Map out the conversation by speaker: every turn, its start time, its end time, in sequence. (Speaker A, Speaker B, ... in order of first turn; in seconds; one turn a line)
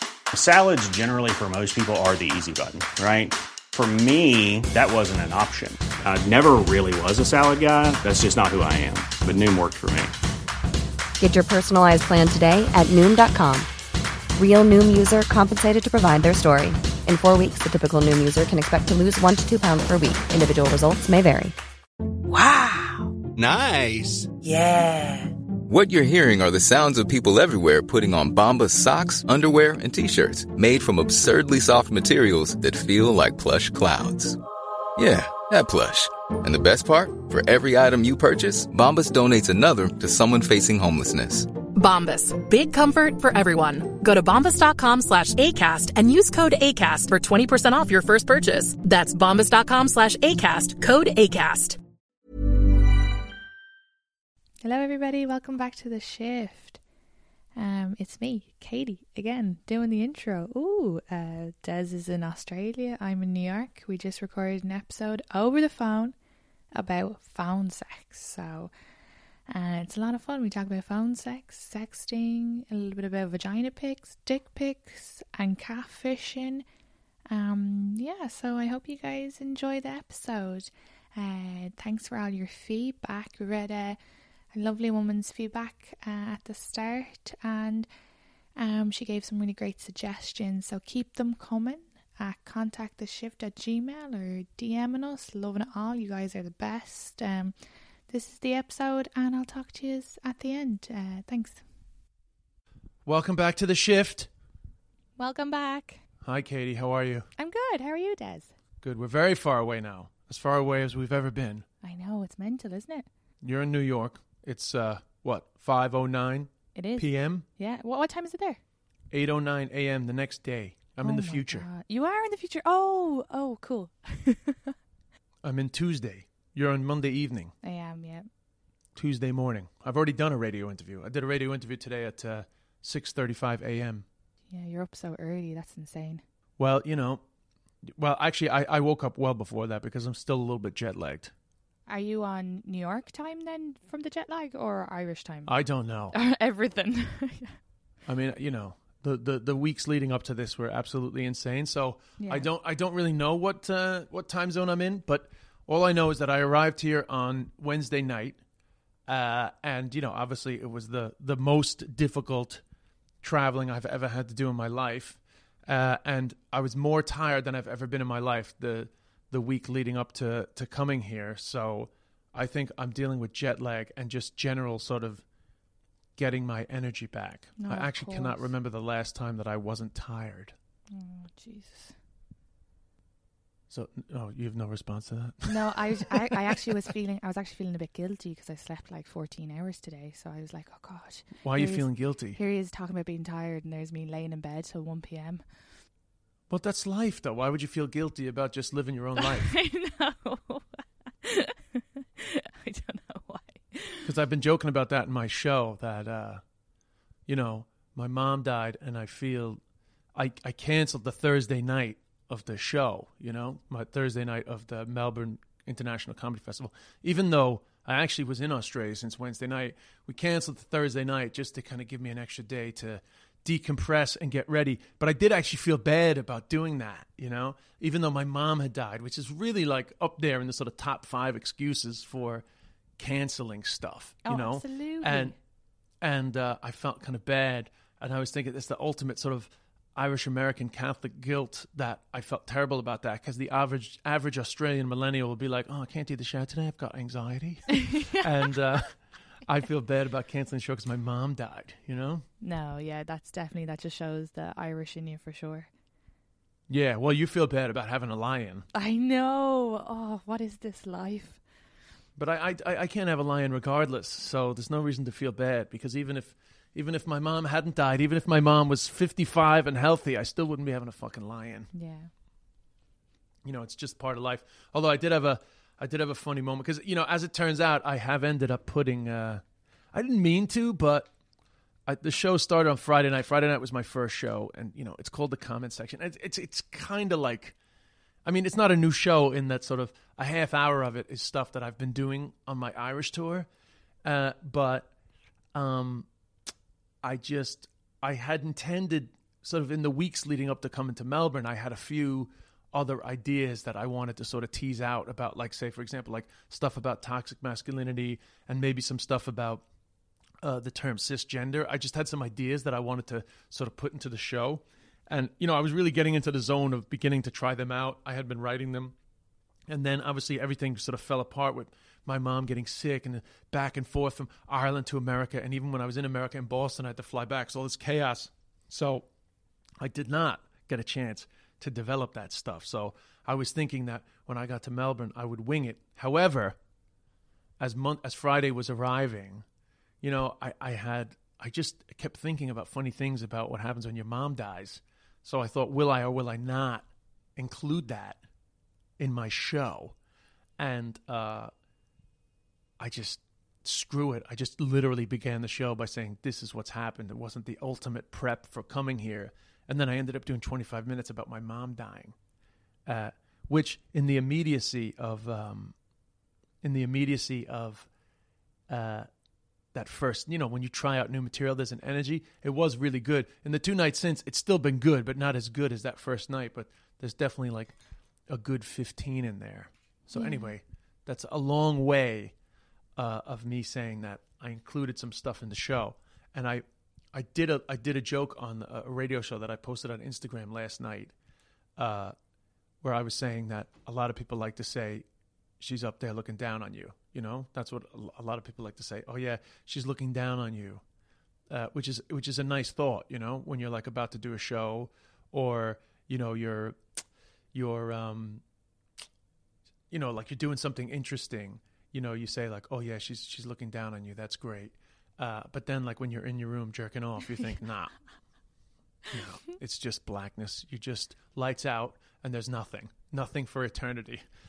Speaker A: 0.3-10.2
Speaker B: 11.2-13.7
Speaker B: 14.4-21.6
Speaker C: 23.4-24.3
Speaker D: 24.5-24.9
Speaker C: 25.7-34.4
Speaker C: 35.0-41.5
Speaker D: 41.7-51.8
Speaker E: 54.6-56.8
Speaker E: 57.6-66.2
Speaker E: 66.7-68.7
Speaker E: 69.5-76.6
Speaker E: 77.3-84.0
Speaker E: 84.5-87.9
Speaker E: 88.6-97.5
Speaker E: 98.1-101.6
Speaker F: 103.0-104.3
Speaker E: 105.2-106.0
Speaker F: 106.2-107.3
Speaker E: 107.4-108.5
Speaker F: 108.8-111.7
Speaker E: 111.8-113.1
Speaker F: 113.4-117.5
Speaker E: 116.8-118.6
Speaker F: 119.1-121.7
Speaker E: 121.0-124.8
Speaker F: 125.4-127.5
Speaker E: 127.6-128.3
Speaker F: 128.9-134.1
Speaker E: 134.5-136.2
Speaker F: 136.6-137.2
Speaker F: 137.9-141.3
Speaker E: 141.9-145.5
Speaker F: 145.5-146.2
Speaker E: 146.1-147.6
Speaker F: 148.1-158.4
Speaker E: 152.2-152.5
Speaker F: 159.1-162.6
Speaker F: 163.2-175.2
Speaker F: 176.2-180.5
Speaker E: 177.6-178.5
Speaker E: 180.9-181.9
Speaker F: 183.7-186.7
Speaker E: 185.5-195.4
Speaker F: 191.4-192.4
Speaker F: 196.5-199.5
Speaker E: 199.2-204.1
Speaker F: 204.1-206.4
Speaker F: 207.3-209.6
Speaker F: 210.1-232.4
Speaker F: 233.0-235.4
Speaker E: 234.2-235.3
Speaker F: 236.0-252.3
Speaker E: 247.8-248.6
Speaker E: 252.4-255.7
Speaker F: 256.7-258.7
Speaker E: 258.7-261.4
Speaker F: 262.2-271.7
Speaker E: 271.7-272.1
Speaker F: 273.4-281.1
Speaker F: 281.9-287.6
Speaker F: 288.2-293.5
Speaker F: 294.0-294.9
Speaker F: 295.5-296.1
Speaker F: 297.0-309.6
Speaker F: 310.4-318.9
Speaker F: 319.7-329.1
Speaker F: 329.8-336.6
Speaker F: 337.6-339.4
Speaker F: 340.0-348.2
Speaker F: 349.0-350.0
Speaker F: 350.6-351.5
Speaker F: 352.8-362.1
Speaker F: 362.9-365.8
Speaker F: 366.6-367.9
Speaker F: 368.7-369.1
Speaker F: 369.7-377.8
Speaker F: 378.3-382.3
Speaker E: 380.1-380.5
Speaker F: 383.0-391.1
Speaker F: 391.8-392.1
Speaker F: 392.8-395.1
Speaker F: 395.6-400.8
Speaker F: 401.5-406.8
Speaker F: 407.5-408.4
Speaker F: 409.9-417.9
Speaker F: 419.1-424.3